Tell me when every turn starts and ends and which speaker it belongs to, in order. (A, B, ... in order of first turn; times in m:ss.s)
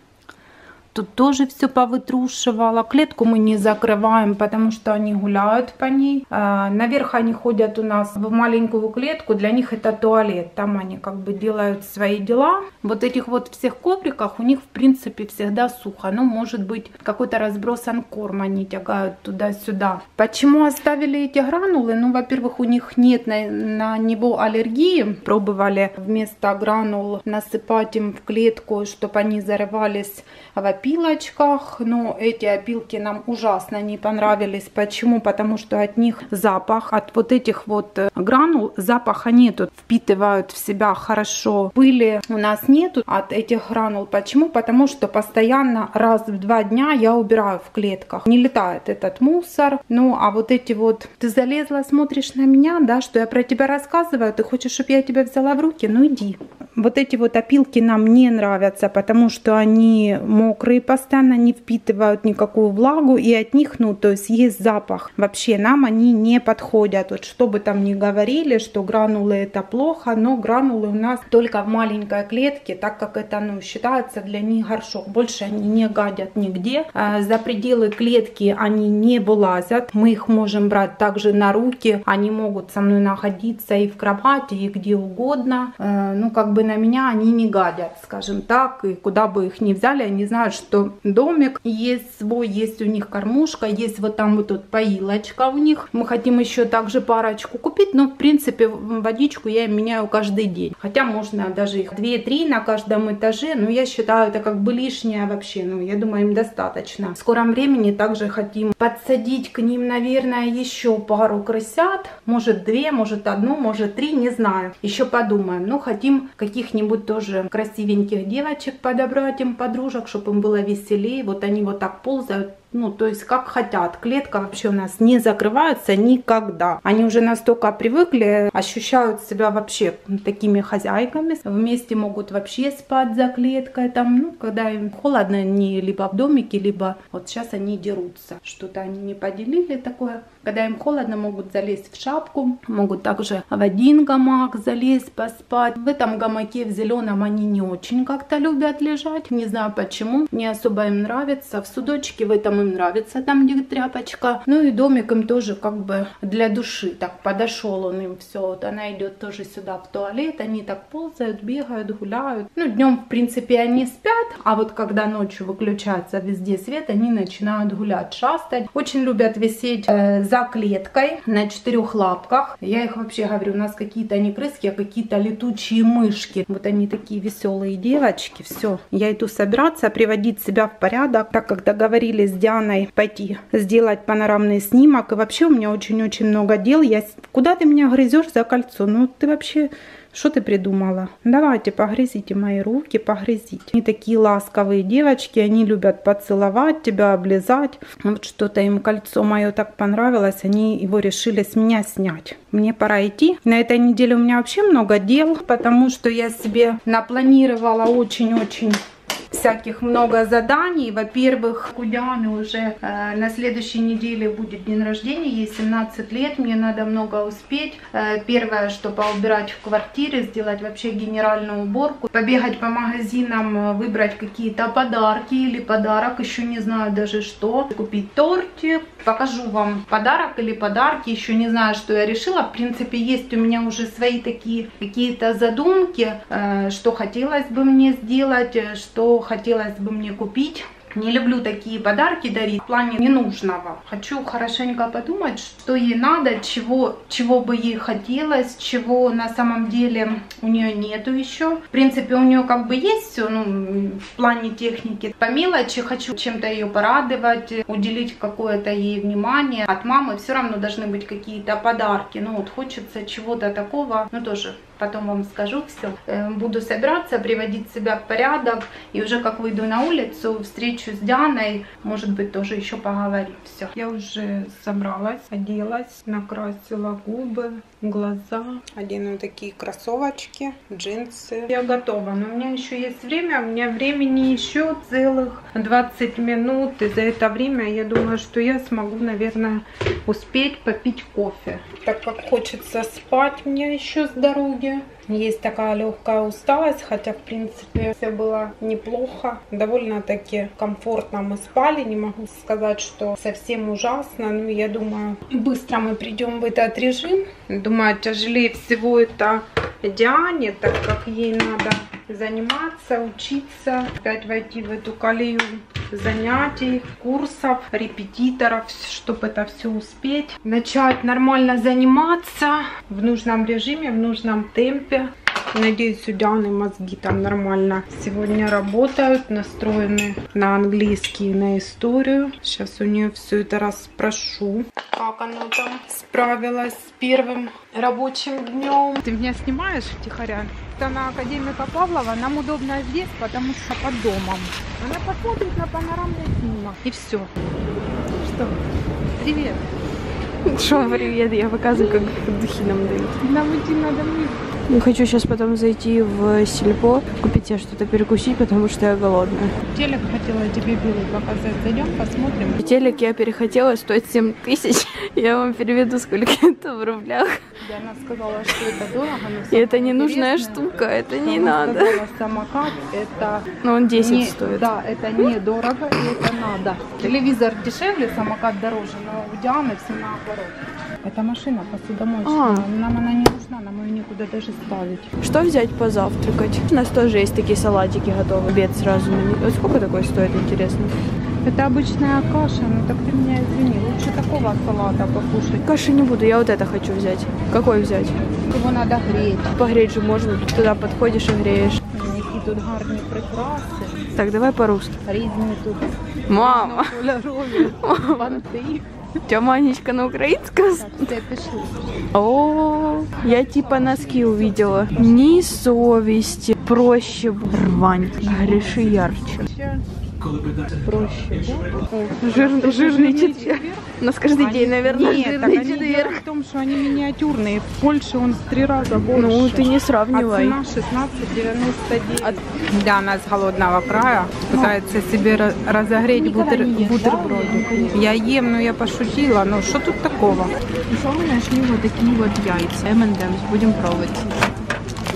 0:00.9-3:28.8 A
3:29.3-5:47.3 A
5:48.2-5:48.6 A
5:49.2-5:49.6 A
5:50.4-5:53.2 B
5:50.6-5:51.2 A
5:53.2-5:54.4 A
5:54.7-5:59.5 B
5:59.6-6:02.8 A
6:02.5-6:07.4 B
6:07.6-6:25.1 A
6:09.5-6:12.0 B
6:13.6-6:14.7 B
6:22.2-6:22.7 B
6:25.2-6:30.9 B
6:31.4-6:35.7 A
6:35.6-6:38.2 B
6:38.4-6:39.6 A
6:39.5-6:41.8 B
6:41.9-6:44.1 A
6:44.2-6:45.0 B
6:45.0-6:48.8 A
6:46.3-6:47.0 B
6:47.6-6:48.4 B
6:49.3-6:51.2 B
6:50.7-6:51.8 A
6:52.1-6:59.4 B
6:58.2-6:59.8 A
7:00.8-7:06.2 B
7:01.8-7:20.5 A
7:09.1-7:10.6 B
7:14.5-7:14.8 B
7:16.1-7:18.2 B
7:20.9-7:24.6 B